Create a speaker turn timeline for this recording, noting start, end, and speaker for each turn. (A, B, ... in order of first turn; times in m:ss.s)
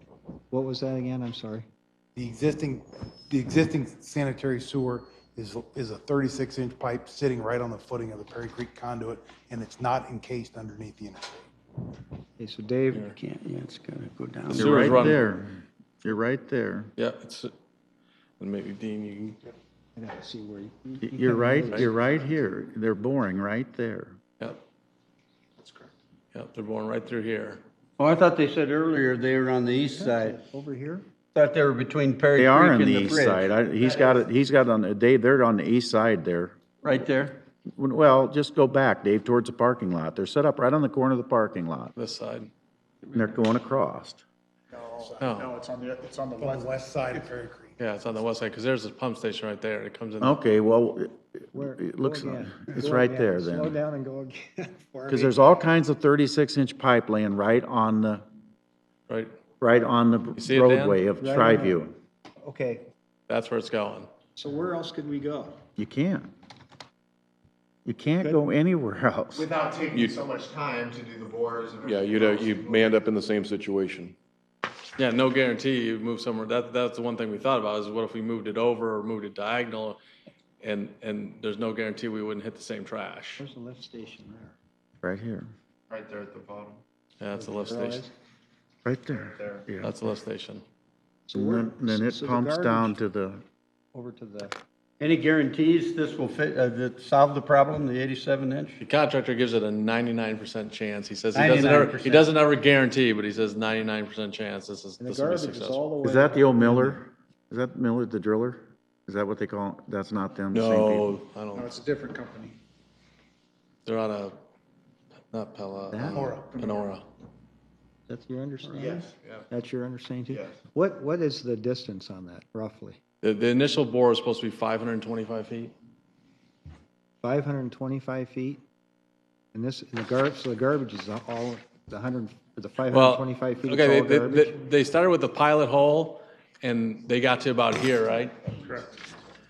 0:00.5-0:01.7 A
0:02.2-0:11.5 B
0:12.4-0:13.1 A
0:13.1-0:15.2 C
0:14.5-0:16.9 D
0:14.6-0:15.2 E
0:17.0-0:17.5 E
0:18.4-0:19.4 E
0:20.0-0:21.9 A
0:21.1-0:24.2 D
0:26.3-0:27.6 E
0:28.0-0:30.4 C
0:29.9-0:31.1 A
0:31.3-0:33.5 C
0:32.4-0:36.6 D
0:36.8-0:37.4 C
0:37.8-0:41.9 D
0:42.0-0:42.5 E
0:43.1-0:44.2 D
0:44.9-0:45.7 B
0:45.2-0:45.6 E
0:45.4-0:46.7 F
0:46.4-0:47.8 B
0:47.8-0:50.4 E
0:50.2-0:53.8 D
0:51.5-0:55.4 A
0:55.1-0:58.2 D
0:59.6-1:02.0 D
1:00.4-1:01.0 E
1:01.2-1:01.8 A
1:02.4-1:02.9 A
1:03.3-1:04.1 E
1:04.4-1:05.6 A
1:05.8-1:06.3 D
1:07.8-1:09.5 D
1:09.4-1:12.9 F
1:09.9-1:10.3 G
1:11.8-1:14.2 G
1:15.0-1:20.0 E
1:20.6-1:23.4 E
1:23.4-1:24.6 A
1:25.0-1:25.5 D
1:25.9-1:26.8 F
1:27.2-1:28.1 E
1:27.3-1:28.1 A
1:28.8-1:29.9 D
1:29.8-1:30.6 E
1:31.3-1:33.0 A
1:31.3-1:33.4 D
1:33.9-1:34.5 A
1:35.0-1:38.8 C
1:38.8-1:45.8 E
1:41.3-1:42.2 C
1:45.0-1:47.0 A
1:46.0-1:51.1 D
1:50.5-1:51.7 E
1:51.5-1:52.5 B
1:53.8-1:54.4 E
1:55.3-1:57.1 E
1:55.9-1:56.3 A
1:56.1-1:56.9 B
1:58.1-2:03.0 A
2:03.2-2:05.7 E
2:07.2-2:08.6 A
2:09.5-2:14.6 A
2:12.9-2:18.8 E